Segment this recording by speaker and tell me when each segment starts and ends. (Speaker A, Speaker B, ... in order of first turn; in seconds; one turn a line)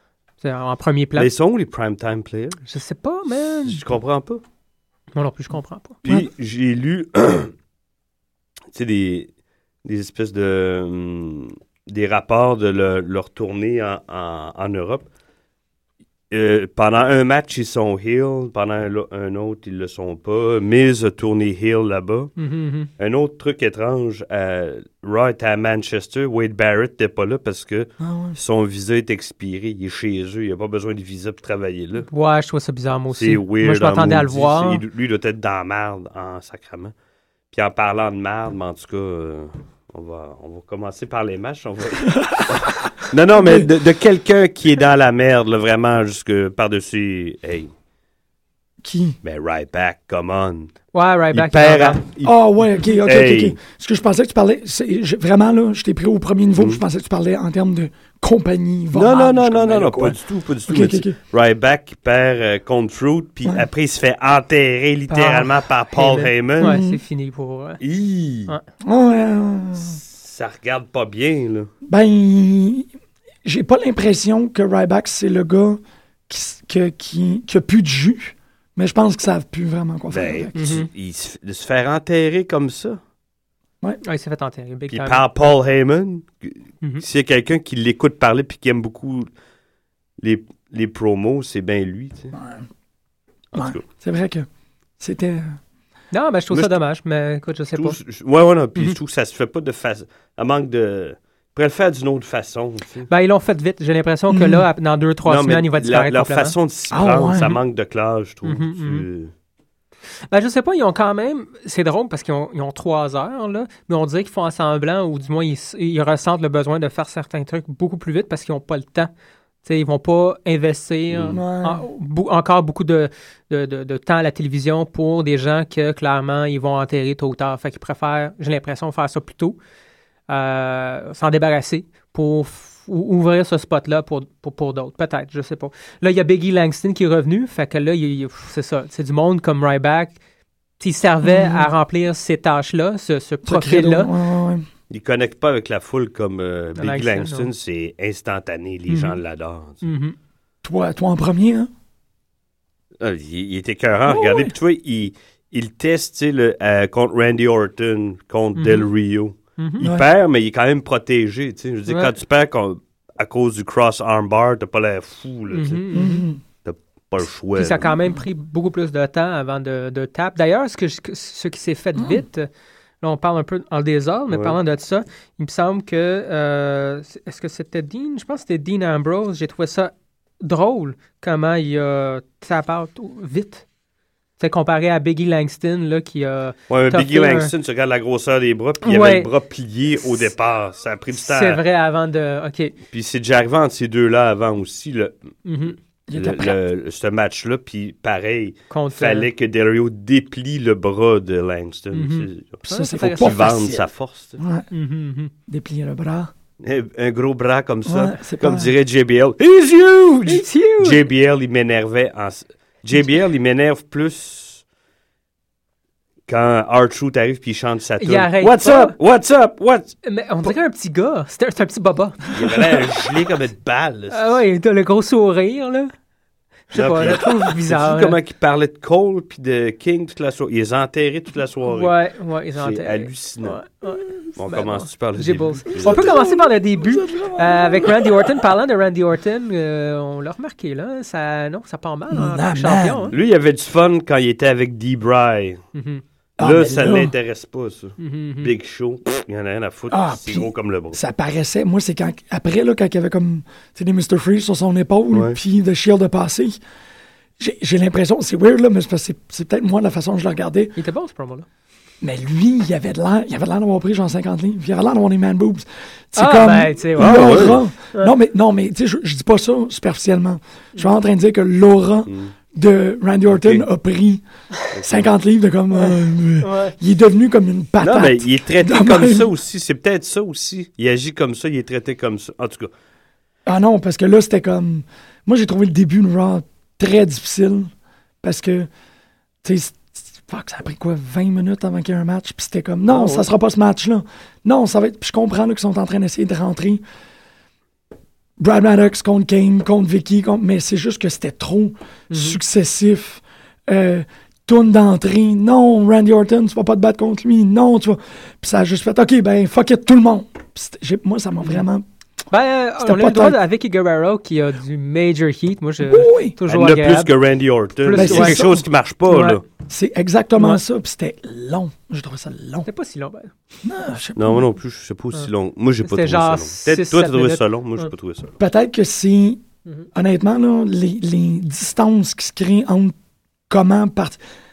Speaker A: 0.4-1.3
Speaker B: 1.2-2.6
Speaker A: 2.6-3.8
Speaker B: 3.6-4.4
Speaker A: 5.2-6.1
Speaker B: 6.0-7.5
Speaker B: 8.7-9.3
Speaker B: 9.8-15.1
Speaker B: 16.3-22.3
Speaker A: 22.4-22.9
Speaker B: 23.0-32.1
Speaker C: 28.0-28.4
Speaker A: 32.1-34.8
Speaker B: 33.1-36.9
Speaker B: 37.5-47.7
Speaker C: 42.1-42.7
Speaker C: 43.4-43.7
Speaker C: 48.8-49.2
Speaker B: 49.2-50.8
Speaker A: 50.9-52.0
Speaker B: 51.3-52.4
Speaker C: 52.2-60.2
Speaker B: 52.9-53.6
Speaker B: 58.9-66.8
Speaker C: 60.7-61.1
Speaker C: 65.1-65.5
Speaker A: 65.9-67.8
Speaker C: 66.6-67.0
Speaker B: 67.8-68.5
Speaker C: 68.8-70.0
Speaker B: 69.8-71.7
Speaker C: 71.9-72.9
Speaker C: 73.4-80.8
Speaker B: 80.1-83.0
Speaker A: 80.6-80.9
Speaker A: 84.0-85.2
Speaker B: 84.9-89.3
Speaker B: 90.2-92.3
Speaker C: 92.3-92.7
Speaker B: 93.5-93.8
Speaker C: 93.5-94.5
Speaker C: 95.0-95.6
Speaker A: 96.1-98.0
Speaker B: 97.7-103.1
Speaker A: 103.1-106.5
Speaker C: 104.3-104.6
Speaker B: 105.2-109.3
Speaker C: 106.9-107.6
Speaker A: 108.5-109.0
Speaker A: 110.3-119.1
Speaker A: 119.6-129.6
Speaker C: 121.3-121.8
Speaker A: 130.3-140.2
Speaker A: 140.8-144.1
Speaker C: 141.2-141.7
Speaker C: 143.4-144.7
Speaker B: 144.9-149.8
Speaker A: 146.8-147.5
Speaker A: 148.9-149.2
Speaker A: 149.8-150.2
Speaker C: 150.6-151.7
Speaker B: 153.0-165.8
Speaker C: 154.1-154.5
Speaker A: 158.6-158.9
Speaker A: 161.9-162.1
Speaker A: 165.5-166.2
Speaker C: 165.9-166.4
Speaker B: 166.7-167.9
Speaker A: 167.6-172.5
Speaker A: 173.0-183.6
Speaker B: 174.3-174.6
Speaker A: 184.4-187.5
Speaker B: 186.7-191.6
Speaker A: 188.8-189.3
Speaker A: 191.1-192.8
Speaker B: 192.9-195.3
Speaker A: 195.4-195.8
Speaker C: 196.1-196.6
Speaker B: 196.2-204.4
Speaker A: 198.7-199.3
Speaker A: 201.9-203.4
Speaker C: 202.7-203.9
Speaker C: 204.4-204.7
Speaker A: 204.7-205.3
Speaker C: 205.5-206.3
Speaker B: 206.6-214.6
Speaker C: 207.9-208.7
Speaker A: 210.3-211.0
Speaker B: 216.3-220.5
Speaker A: 218.0-219.0
Speaker A: 220.0-222.3
Speaker B: 222.3-224.4
Speaker A: 224.1-225.9
Speaker A: 226.7-228.2
Speaker B: 226.7-231.9
Speaker A: 231.7-243.1
Speaker B: 232.6-233.6
Speaker B: 234.4-236.1
Speaker C: 235.8-238.4
Speaker C: 242.1-243.2
Speaker B: 243.1-245.6
Speaker A: 245.8-246.0
Speaker C: 246.4-247.1
Speaker B: 246.4-251.0
Speaker A: 248.0-248.5
Speaker C: 249.9-256.6
Speaker B: 255.1-255.4
Speaker C: 257.4-260.8
Speaker A: 260.8-261.5
Speaker C: 262.0-274.2
Speaker A: 266.2-268.1
Speaker B: 267.0-267.6
Speaker B: 272.1-272.3
Speaker B: 273.3-273.7
Speaker B: 274.7-275.1
Speaker C: 274.8-279.3
Speaker A: 275.8-276.8
Speaker B: 277.8-282.7
Speaker C: 283.5-287.7
Speaker C: 288.2-288.7
Speaker C: 289.4-296.8
Speaker B: 292.9-293.2
Speaker C: 298.4-311.9
Speaker A: 302.1-302.4
Speaker A: 312.3-317.1
Speaker C: 312.8-313.4
Speaker C: 315.8-316.4
Speaker B: 316.5-319.4
Speaker A: 317.8-318.4
Speaker C: 317.9-318.7
Speaker A: 319.1-319.4
Speaker C: 319.7-322.7
Speaker A: 322.6-323.3
Speaker C: 323.6-324.5
Speaker B: 324.2-328.4
Speaker A: 325.8-327.9
Speaker C: 328.4-329.4
Speaker C: 329.9-332.9
Speaker C: 333.5-334.2